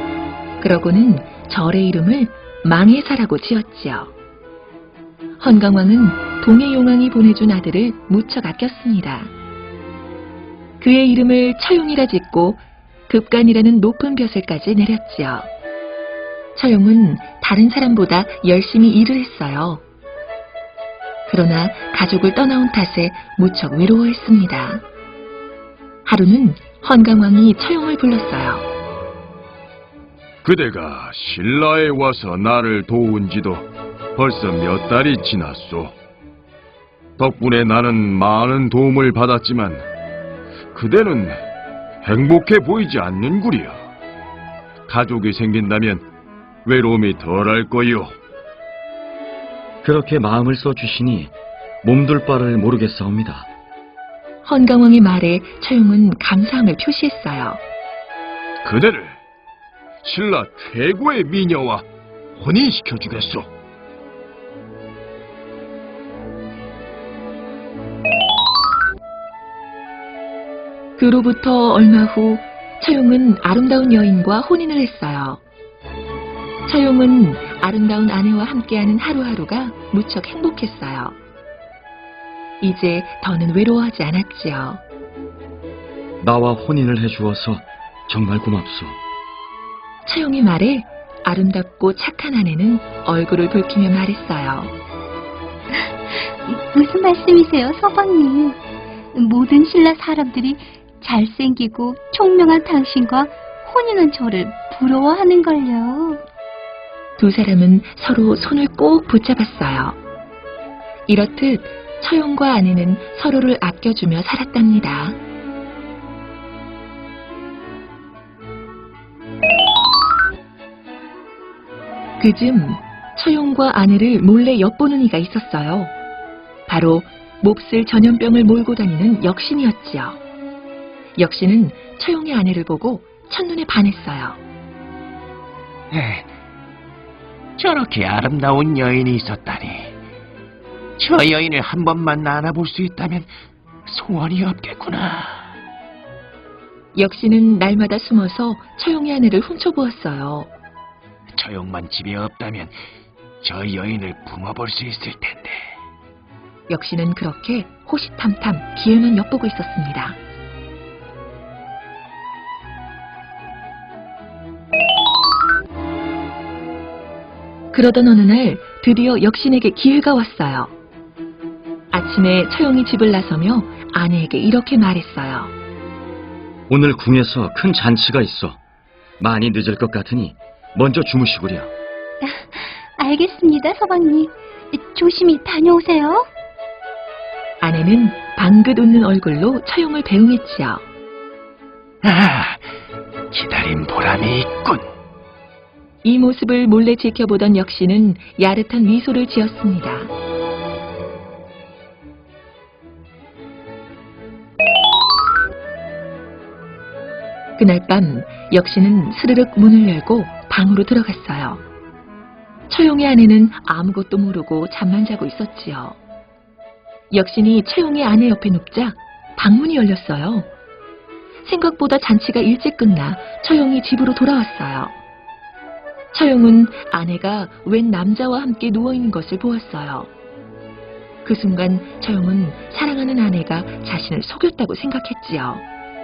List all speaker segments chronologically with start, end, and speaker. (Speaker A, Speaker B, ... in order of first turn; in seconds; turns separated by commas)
Speaker A: 0.6-4.1, Speaker A: 5.4-9.3, Speaker A: 10.8-15.5, Speaker A: 16.6-19.8, Speaker A: 21.3-24.8, Speaker A: 26.1-28.6, Speaker B: 30.4-35.9, Speaker B: 37.2-39.8, Speaker B: 40.7-41.4, Speaker B: 42.0-43.8, Speaker B: 44.9-46.0, Speaker B: 46.6-48.1, Speaker C: 49.8-51.3, Speaker C: 51.8-53.5, Speaker A: 54.4-57.6, Speaker B: 58.6-59.2, Speaker B: 60.0-61.8, Speaker B: 62.4-63.5, Speaker A: 71.0-75.4, Speaker A: 76.7-81.2, Speaker A: 82.6-84.8, Speaker C: 86.2-89.0, Speaker A: 90.0-94.7, Speaker D: 96.2-98.6, Speaker D: 99.1-106.2, Speaker A: 107.2-110.0, Speaker A: 111.1-115.2, Speaker A: 122.2-125.9, Speaker A: 126.7-130.2, Speaker A: 131.2-134.4, Speaker E: 135.9-136.3, Speaker E: 137.6-139.9, Speaker E: 141.0-143.3, Speaker E: 143.9-145.5, Speaker A: 146.9-150.5, Speaker E: 151.3-152.7, Speaker E: 153.4-155.6, Speaker A: 156.7-160.2, Speaker A: 167.7-170.7, Speaker A: 171.9-175.5, Speaker C: 176.7-178.6, Speaker C: 179.2-181.7, Speaker D: 182.2-186.3, Speaker A: 187.6-190.8, Speaker E: 192.0-192.6, Speaker E: 193.3-194.8, Speaker A: 196.0-200.1, Speaker A: 207.6-211.6, Speaker A: 212.7-216.0, Speaker A: 217.1-220.5, Speaker A: 221.4-224.9, Speaker A: 226.1-230.1, Speaker A: 231.2-235.6